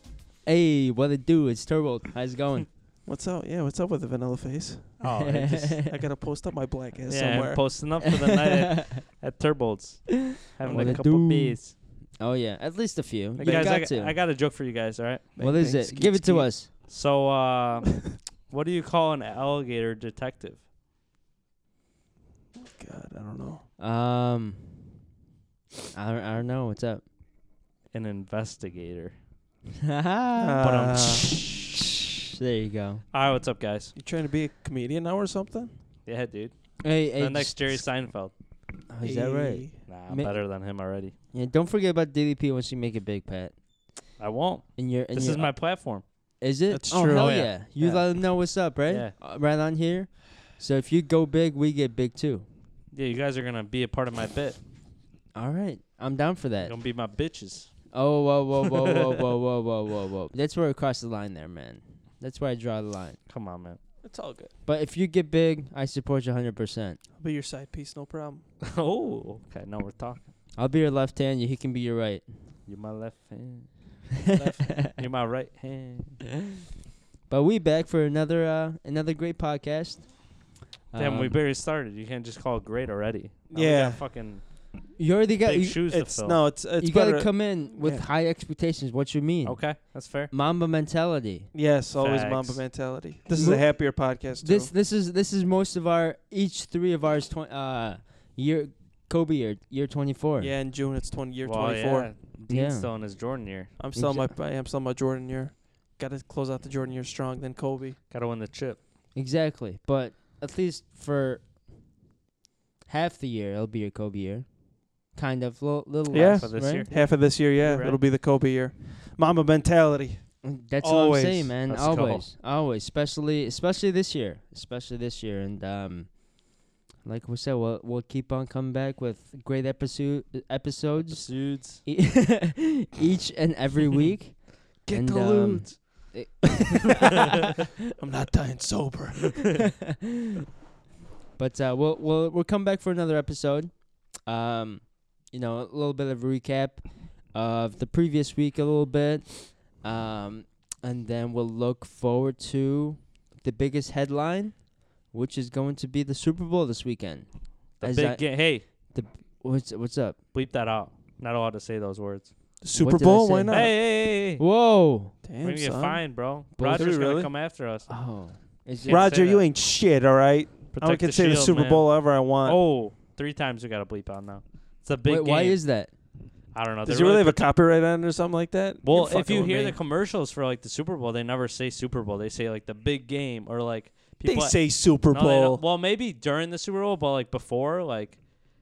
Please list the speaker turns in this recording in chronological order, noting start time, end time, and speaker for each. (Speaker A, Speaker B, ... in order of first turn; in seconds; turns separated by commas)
Speaker A: 0.4-2.7, Speaker B: 3.0-5.2, Speaker C: 5.0-5.8, Speaker A: 5.1-5.9, Speaker B: 5.8-7.7, Speaker C: 7.1-11.7, Speaker A: 8.2-9.0, Speaker A: 10.6-14.2, Speaker B: 10.7-11.1, Speaker B: 13.4-13.8, Speaker C: 13.4-15.3, Speaker B: 15.3-16.7, Speaker A: 15.4-16.7, Speaker C: 16.8-20.6, Speaker B: 22.6-23.6, Speaker A: 23.8-24.8, Speaker A: 25.9-27.0, Speaker C: 27.9-29.2, Speaker A: 29.8-31.0, Speaker B: 30.4-31.3, Speaker C: 30.6-31.4, Speaker A: 32.4-33.0, Speaker C: 33.1-34.0, Speaker B: 33.9-35.7, Speaker C: 36.0-38.3, Speaker A: 36.8-38.0, Speaker A: 38.9-40.6, Speaker B: 39.0-39.8, Speaker C: 39.9-41.1, Speaker A: 41.3-43.5, Speaker C: 44.2-46.0, Speaker A: 44.8-52.5, Speaker B: 46.7-47.4, Speaker C: 47.1-48.2, Speaker C: 48.9-49.1, Speaker C: 52.9-54.6, Speaker A: 55.3-56.8, Speaker C: 56.6-57.8, Speaker A: 57.9-63.2, Speaker C: 63.3-63.8, Speaker B: 64.0-64.5, Speaker A: 64.6-67.0, Speaker B: 67.2-68.4, Speaker C: 68.6-70.3, Speaker A: 70.5-72.2, Speaker C: 72.7-73.7, Speaker B: 74.3-74.8, Speaker A: 74.4-75.0, Speaker C: 74.7-76.3, Speaker A: 77.3-81.4, Speaker C: 81.0-84.5, Speaker B: 83.5-84.0, Speaker A: 85.0-86.0, Speaker C: 85.4-86.5, Speaker B: 85.9-88.0, Speaker A: 86.8-91.5, Speaker C: 89.4-90.3, Speaker B: 91.5-94.7, Speaker C: 92.0-92.6, Speaker A: 93.3-100.5, Speaker B: 100.4-102.1, Speaker C: 101.4-103.7, Speaker A: 102.5-102.9, Speaker B: 103.8-108.0, Speaker A: 103.9-104.3, Speaker C: 108.1-108.8, Speaker A: 109.1-111.5, Speaker A: 112.9-116.9, Speaker C: 116.1-118.0, Speaker B: 116.1-121.5, Speaker A: 120.4-137.4, Speaker C: 121.7-122.2, Speaker C: 131.0-131.8, Speaker B: 134.9-136.0, Speaker C: 135.1-135.6, Speaker B: 137.9-139.5, Speaker A: 141.4-160.2, Speaker C: 157.8-158.6, Speaker C: 160.3-162.3, Speaker B: 162.6-163.7, Speaker A: 162.7-165.2, Speaker C: 163.5-164.4, Speaker B: 165.2-167.3, Speaker C: 165.4-167.9, Speaker A: 166.5-167.2, Speaker A: 167.9-169.0, Speaker C: 168.8-169.5, Speaker B: 168.9-172.6, Speaker C: 170.7-175.6, Speaker A: 175.1-175.9, Speaker C: 176.5-177.5, Speaker B: 176.8-179.8, Speaker C: 178.8-188.2, Speaker B: 184.2-185.6